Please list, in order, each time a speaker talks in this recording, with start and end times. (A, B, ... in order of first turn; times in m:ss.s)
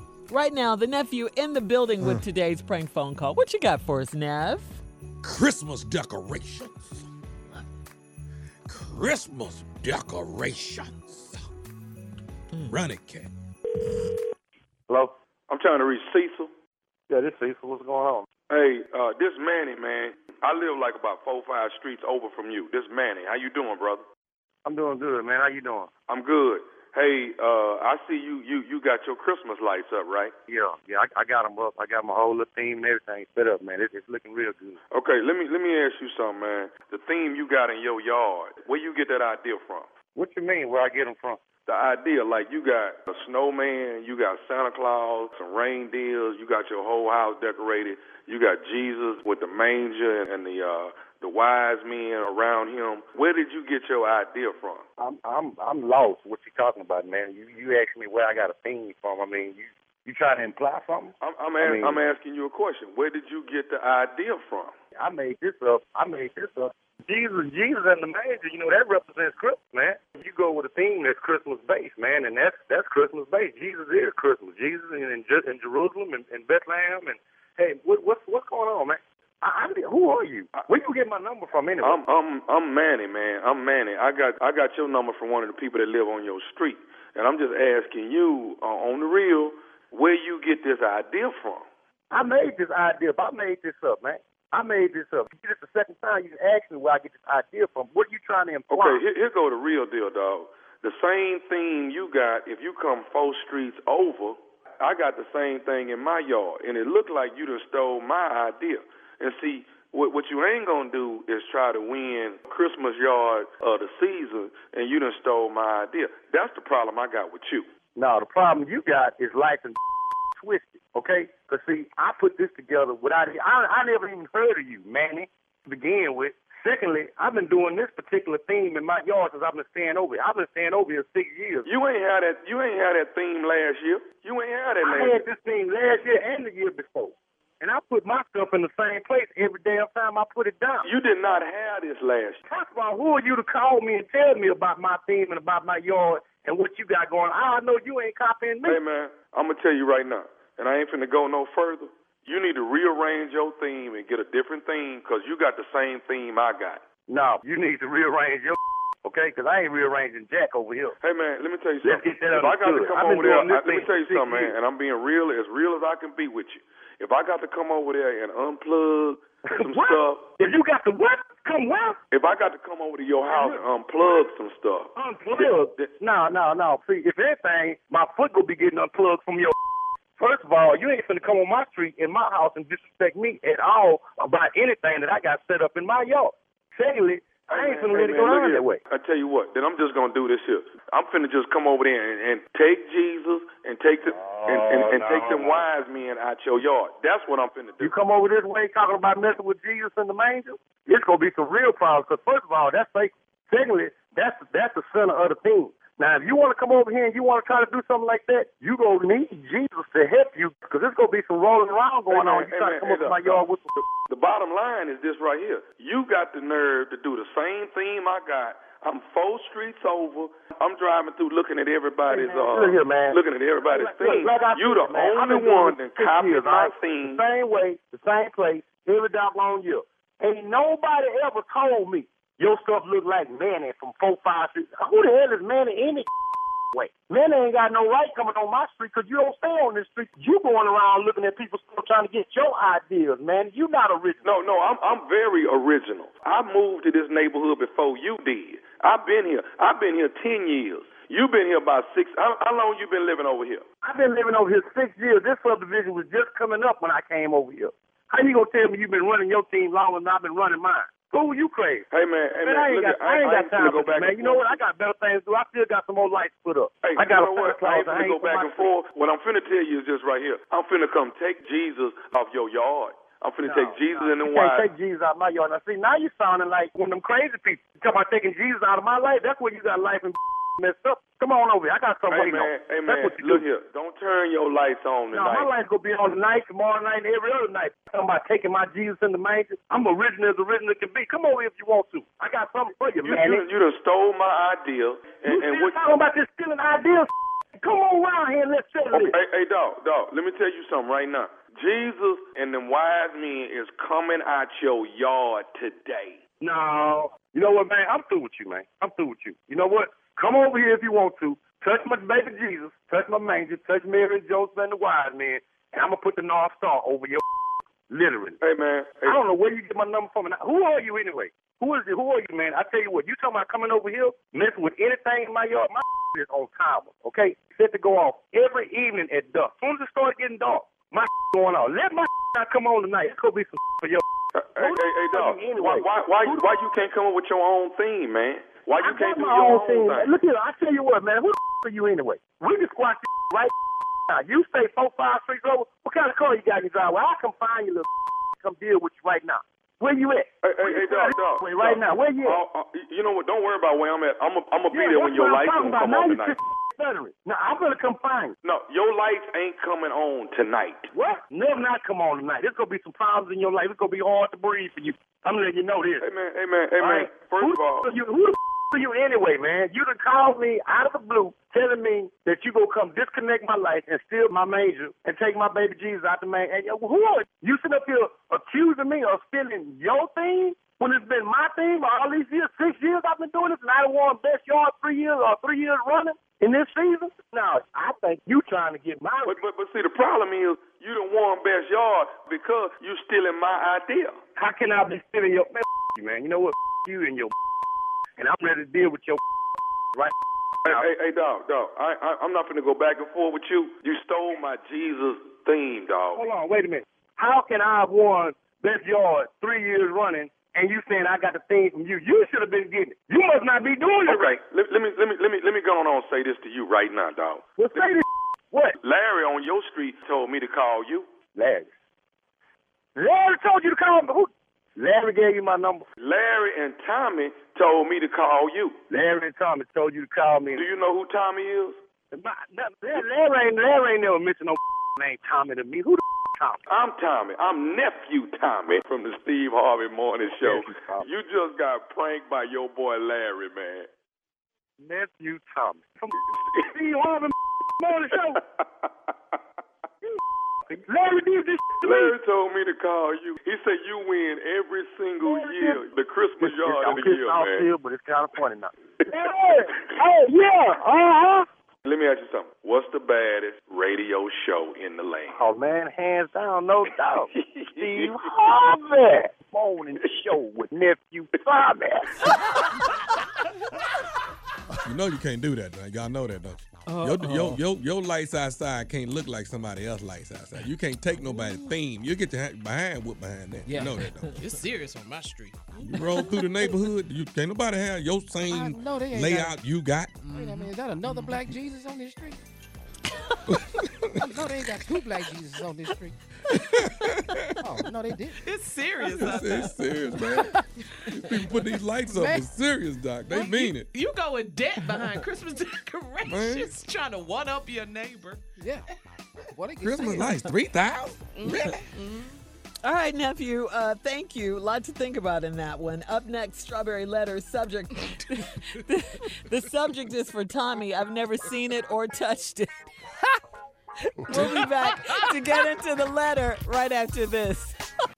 0:00.3-0:04.8 A
0:05.2-0:07.1 B
0:08.7-0:11.4 B
0:12.7-0:13.3 B
0:15.5-0:16.5 C
0:17.1-0:18.3 D
0:18.5-0:24.0 C
0:24.6-0:25.9 D
0:26.1-0:30.3 C
0:30.5-0:34.8 D
0:34.9-0:39.9 C
0:40.1-0:41.4 D
0:41.6-0:54.8 C
0:55.0-1:02.0 D
1:01.2-1:04.7 C
1:05.0-1:22.0 D
1:21.8-1:31.7 C
1:32.1-1:39.0 D
1:38.7-1:57.7 C
1:58.0-1:59.8 D
2:00.4-2:11.7 D
2:11.6-2:15.2 C
2:14.8-2:20.9 D
2:20.8-2:22.4 C
2:22.4-2:28.8 D
2:28.6-2:36.8 C
2:37.1-2:41.0 D
2:41.0-2:50.2 C
2:41.8-2:44.5 D
2:49.5-2:52.0 D
2:52.1-2:55.9 C
2:53.3-2:53.6 D
2:54.9-2:59.5 D
3:00.2-3:08.8 D
3:07.5-3:17.9 C
3:14.0-3:15.7 D
3:17.8-3:33.8 D
3:32.1-3:47.2 C
3:42.1-3:56.1 D
3:56.7-4:04.5 D
4:04.2-4:13.6 C
4:13.8-4:21.9 D
4:21.9-4:24.6 C
4:22.4-4:28.7 D
4:26.8-4:34.7 C
4:33.4-4:43.4 D
4:42.1-4:45.5 C
4:45.1-4:53.4 D
4:53.0-4:55.8 C
4:55.2-4:59.2 D
4:58.9-5:06.2 C
5:06.4-5:17.2 D
5:17.9-5:18.4 D
5:18.4-5:19.2 C
5:19.0-5:34.0 D
5:34.3-5:40.1 C
5:34.6-5:36.5 D
5:38.8-5:43.5 D
5:44.1-5:52.4 D
5:50.4-5:56.4 C
5:54.7-5:58.4 D
5:58.4-6:00.9 C
6:00.9-6:06.0 D
6:06.0-6:07.9 C
6:06.8-6:29.4 D
6:29.2-6:34.2 C
6:34.4-6:37.3 D
6:38.2-6:39.2 D
6:40.6-6:46.2 C
6:46.1-6:54.3 D
6:54.0-6:57.8 C
6:57.6-6:58.8 D
6:58.8-7:01.1 C
7:01.3-7:01.7 D
7:03.0-7:05.8 D
7:06.0-7:08.8 C
7:08.9-7:10.6 D
7:10.5-7:11.8 C
7:12.1-7:16.6 D
7:16.7-7:23.9 C
7:20.4-7:21.1 D
7:24.8-7:28.4 D
7:26.3-7:26.7 C
7:28.1-7:28.9 C
7:30.0-7:32.2 D
7:31.8-7:37.7 C
7:35.2-7:35.8 D
7:36.4-7:41.4 D
7:41.8-7:45.4 C
7:45.3-7:52.4 D
7:47.4-7:48.2 C
7:54.8-8:04.5 B
7:56.9-7:57.6 E
8:01.2-8:01.7 F
8:03.7-8:03.9 F
8:03.7-8:06.5 E
8:05.8-8:10.2 B
8:08.4-8:09.6 F
8:10.2-8:11.4 E
8:10.3-8:12.4 F
8:13.4-8:14.5 B
8:14.2-8:16.2 F
8:16.5-8:17.8 B
8:17.6-8:18.4 F
8:18.4-8:20.2 E
8:19.0-8:19.4 F
8:19.0-8:23.9 B
8:20.2-8:20.7 F
8:21.5-8:22.5 F
8:23.3-8:28.5 E
8:26.2-8:26.7 B
8:28.6-8:28.8 F
8:29.5-8:30.5 F
8:29.8-8:31.8 B
8:31.3-8:32.4 E
8:32.8-8:42.8 A
8:44.1-8:47.8 A
8:44.4-8:44.7 E